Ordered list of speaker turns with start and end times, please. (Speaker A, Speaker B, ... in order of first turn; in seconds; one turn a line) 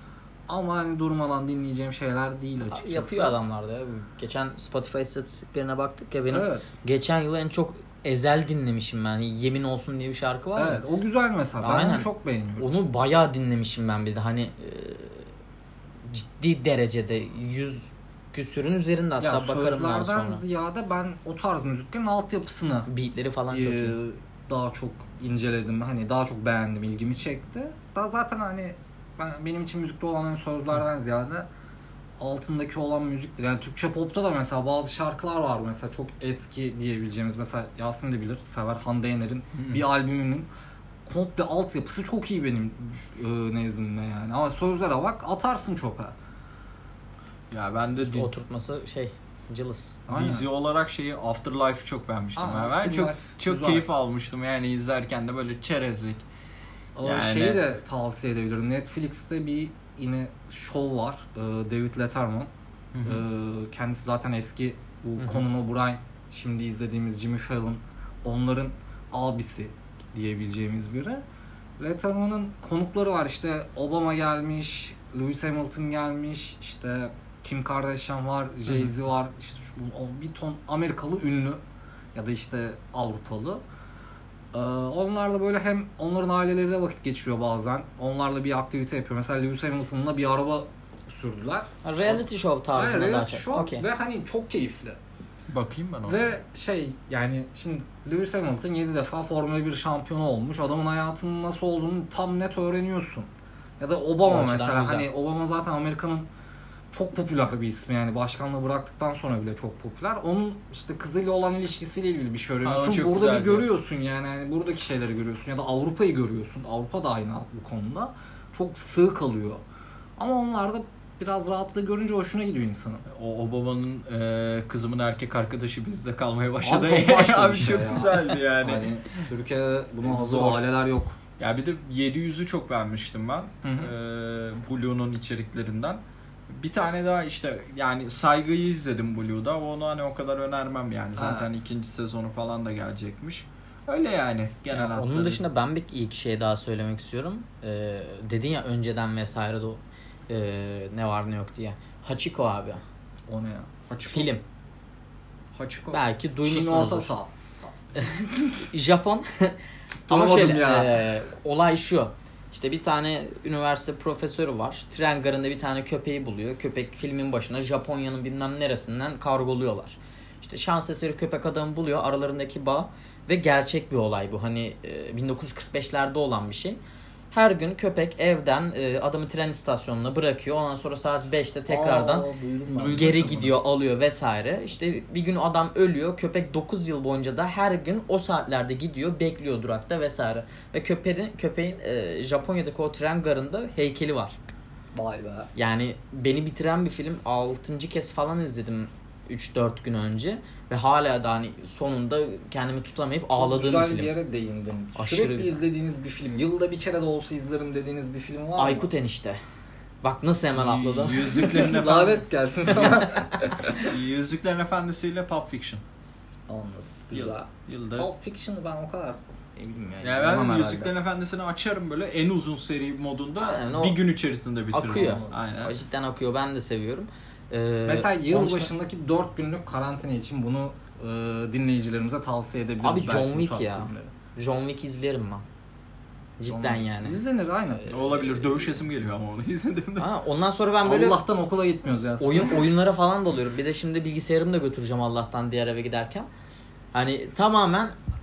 Speaker A: 0.5-3.4
Speaker B: 2.7-10.8
Speaker A: 6.3-6.7
Speaker A: 10.6-12.7
Speaker B: 11.6-15.3
Speaker B: 16.1-20.4
Speaker A: 19.2-22.9
Speaker B: 22.9-23.9
Speaker A: 23.5-31.5
Speaker A: 32.2-40.5
Speaker C: 39.5-39.8
Speaker A: 41.1-46.1
Speaker C: 47.5-48.3
Speaker B: 48.0-50.0
Speaker A: 50.1-50.5
Speaker C: 50.1-56.2
Speaker A: 52.4-53.9
Speaker A: 57.0-62.5
Speaker C: 57.0-57.6
Speaker C: 62.9-63.2
Speaker A: 63.0-71.2
Speaker A: 71.8-81.6
Speaker A: 82.2-83.6
Speaker A: 84.5-92.2
Speaker B: 91.8-93.8
Speaker A: 92.8-95.0
Speaker C: 95.5-96.2
Speaker A: 96.1-103.3
Speaker A: 103.8-106.3
Speaker B: 104.2-105.1
Speaker A: 106.9-119.6
Speaker C: 112.6-113.7
Speaker A: 120.2-123.0
Speaker C: 123.1-128.9
Speaker A: 126.6-131.2
Speaker C: 130.0-130.6
Speaker C: 131.4-145.4
Speaker A: 133.6-133.9
Speaker A: 141.2-141.6
Speaker B: 144.7-152.8
Speaker A: 153.3-153.7
Speaker C: 153.9-154.3
Speaker B: 154.1-154.4
Speaker C: 155.6-156.0
Speaker B: 155.9-157.1
Speaker A: 156.4-157.3
Speaker B: 158.0-159.6
Speaker A: 158.1-158.3
Speaker A: 160.1-161.0
Speaker B: 160.1-176.8
Speaker B: 177.3-182.3
Speaker A: 181.7-183.1
Speaker C: 182.7-183.6
Speaker B: 182.9-194.4
Speaker A: 194.9-195.5
Speaker B: 195.6-204.1
Speaker A: 203.3-208.9
Speaker B: 205.0-205.6
Speaker B: 208.6-209.4
Speaker B: 210.0-211.7
Speaker C: 210.6-212.2
Speaker A: 211.2-213.9
Speaker B: 212.7-213.3
Speaker C: 213.9-215.8
Speaker A: 216.5-220.9
Speaker C: 217.1-218.1
Speaker C: 220.0-225.8
Speaker B: 223.4-224.0
Speaker B: 224.7-228.7
Speaker A: 224.8-225.3
Speaker A: 227.9-234.1
Speaker B: 232.8-235.4
Speaker B: 236.4-237.2
Speaker A: 236.5-237.8
Speaker B: 237.8-238.6
Speaker C: 237.9-240.1
Speaker B: 240.0-241.2
Speaker A: 240.8-242.7
Speaker B: 242.2-246.3
Speaker B: 246.9-247.9